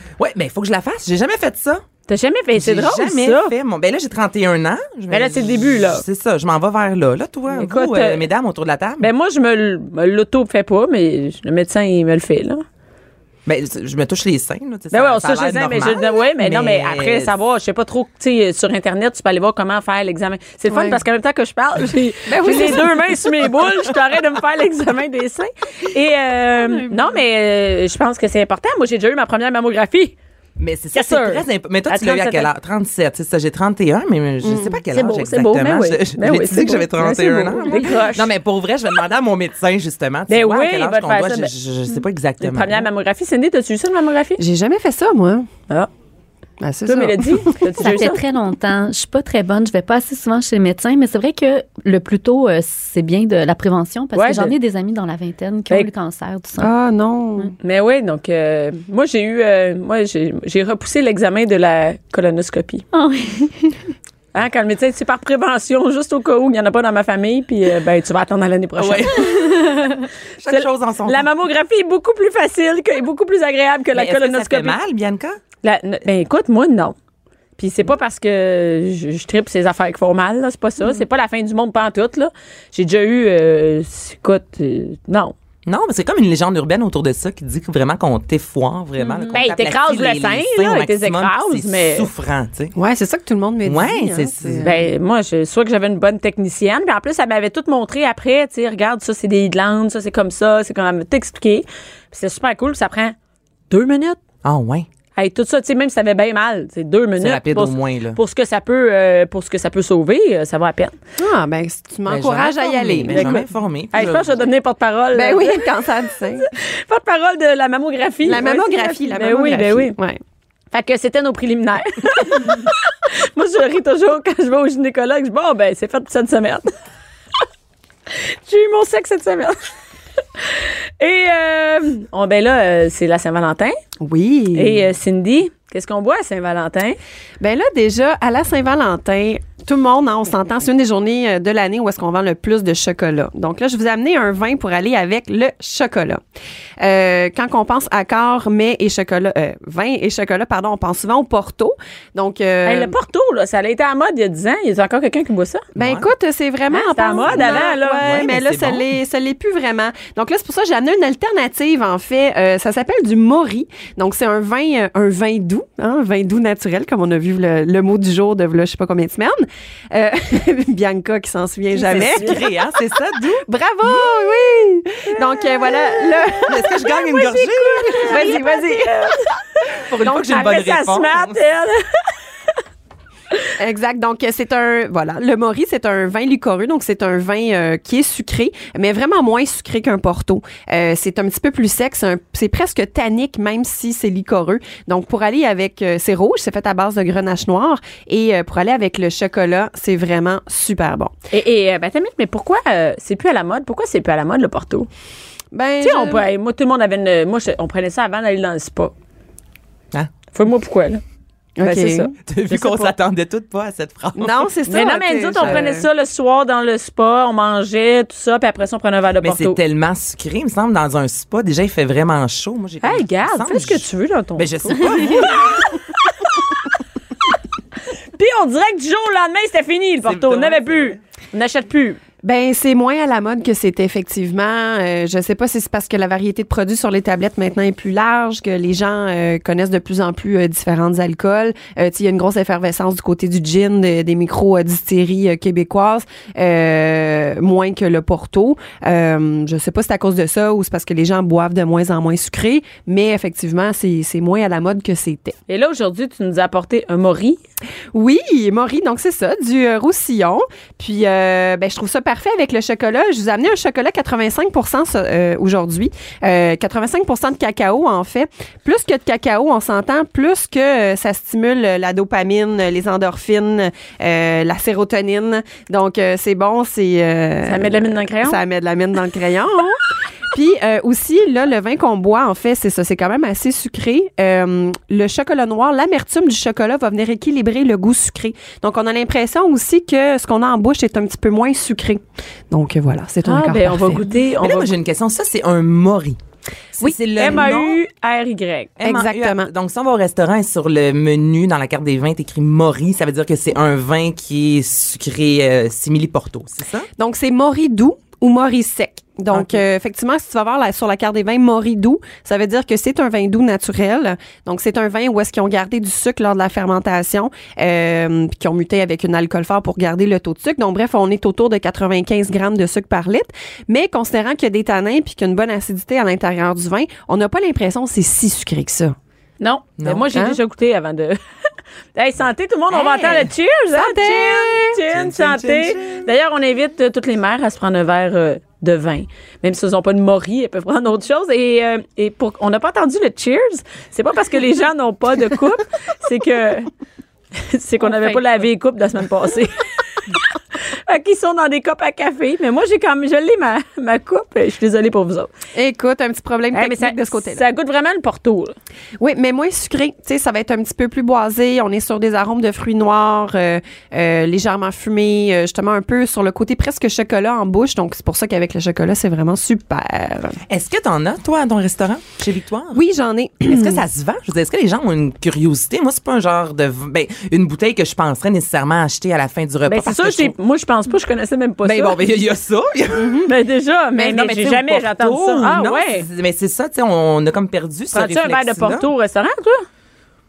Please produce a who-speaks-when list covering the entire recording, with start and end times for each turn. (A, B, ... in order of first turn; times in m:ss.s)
0:00.2-0:01.8 A
0:02.1-0:03.5 B
0:02.5-0:09.1 A
0:05.1-0:06.0 B
0:07.5-0:08.3 B
0:09.0-0:12.6 B
0:13.4-0:17.3 A
0:14.9-0:30.1 B
0:20.7-0:21.0 C
0:22.2-0:23.2 C
0:30.6-0:42.8 A
0:30.9-0:32.5 B
0:34.4-0:34.8 C
0:34.9-0:38.3 B
0:40.3-0:41.5 B
0:42.4-0:44.4 B
0:44.4-0:45.5 C
0:46.6-0:47.7 C
0:46.8-0:48.2 B
0:47.8-0:56.7 D
0:54.1-0:54.5 B
0:56.6-0:57.5 C
0:57.6-1:02.8 B
1:02.9-1:03.8 D
1:04.3-1:09.6 B
1:08.8-1:09.8 A
1:09.6-1:10.0 D
1:10.4-1:11.2 A
1:10.4-1:14.8 B
1:13.9-1:15.4 A
1:15.6-1:17.0 B
1:17.6-1:25.3 B
1:25.6-1:32.7 A
1:29.3-1:32.1 B
1:32.7-1:34.8 C
1:33.6-1:34.6 A
1:34.6-1:43.2 B
1:43.7-1:44.2 B
1:44.4-1:44.9 A
1:45.2-1:51.0 B
1:47.2-1:48.2 A
1:51.2-1:53.4 C
1:52.1-1:54.4 A
1:53.1-1:55.6 B
1:55.1-1:56.5 C
1:56.4-2:00.0 B
1:58.2-2:00.2 C
2:00.7-2:06.7 B
2:08.1-2:09.6 B
2:10.4-2:13.8 B
2:14.0-2:14.8 C
2:14.5-2:17.0 B
2:17.4-2:26.2 C
2:26.8-2:32.9 C
2:32.6-2:35.6 B
2:35.7-2:52.4 C
2:35.8-2:36.1 A
2:36.7-2:38.0 B
2:37.3-2:38.8 A
2:51.8-2:54.1 A
2:51.8-2:52.4 B
2:53.4-2:59.1 C
2:56.4-2:58.2 A
2:57.1-2:59.4 B
2:59.8-3:01.4 A
3:00.0-3:02.1 B
3:03.6-3:21.1 C
3:21.3-3:24.9 B
3:25.5-3:26.3 C
3:25.8-3:28.9 B
3:30.3-3:31.0 B
3:31.6-3:32.1 C
3:31.6-3:32.9 B
3:32.3-3:34.5 A
3:34.2-3:35.8 C
3:34.7-3:39.6 B
3:39.2-3:45.8 A
3:42.8-3:45.5 B
3:48.1-3:52.0 B
3:50.0-3:51.0 A
3:52.2-4:15.4 C
4:15.5-4:17.4 B
4:17.9-4:54.0 C
4:37.4-4:38.4 B
4:53.2-4:54.7 B
4:54.4-4:56.2 A
4:56.8-4:57.8 A
4:57.1-4:58.7 B
4:58.8-5:06.9 A
4:58.8-4:59.5 C
5:07.0-5:29.0 C
5:29.4-5:31.2 B
5:29.8-5:30.1 A
5:31.9-5:46.7 B
5:32.8-5:33.3 A
5:33.7-5:34.8 C
5:34.9-5:36.0 A
5:47.4-5:55.3 B
5:55.5-5:57.4 C
5:56.5-5:58.6 B
5:59.0-6:10.4 C
6:10.5-6:12.8 A
6:12.7-6:13.8 C
6:13.4-6:20.3 A
6:19.7-6:22.0 B
6:21.6-6:23.2 A
6:23.0-6:23.3 C
6:23.2-6:26.1 B
6:23.9-6:28.9 A
6:27.9-6:29.7 B